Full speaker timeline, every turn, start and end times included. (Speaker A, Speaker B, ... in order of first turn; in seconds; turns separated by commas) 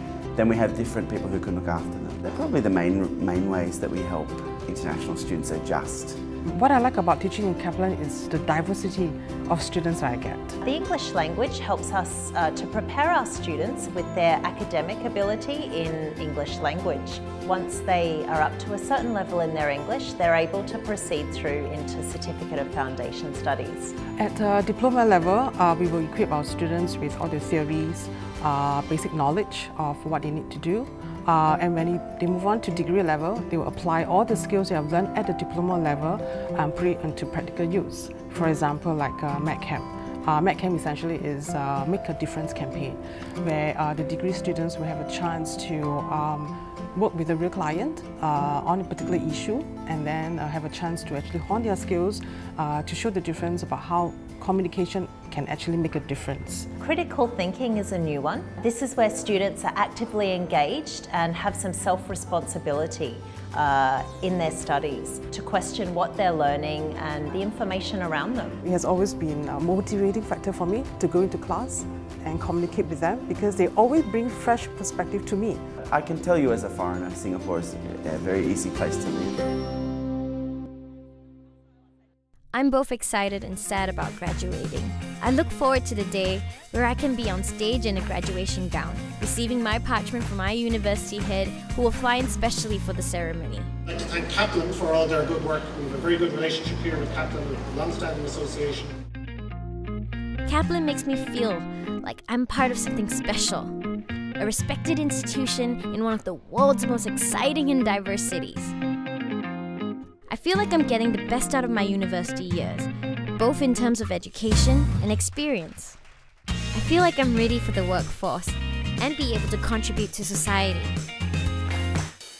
Speaker A: 0.3-6.2, Speaker B: 6.4-10.6, Speaker C: 10.6-23.9, Speaker B: 24.2-56.7, Speaker C: 56.8-68.6, Speaker B: 68.6-75.6, Speaker A: 75.9-79.5, Speaker D: 82.5-93.7, Speaker E: 93.9-98.9, Speaker D: 100.4-103.8, Speaker D: 104.4-108.7, Speaker D: 110.3-116.0, Speaker D: 116.7-121.0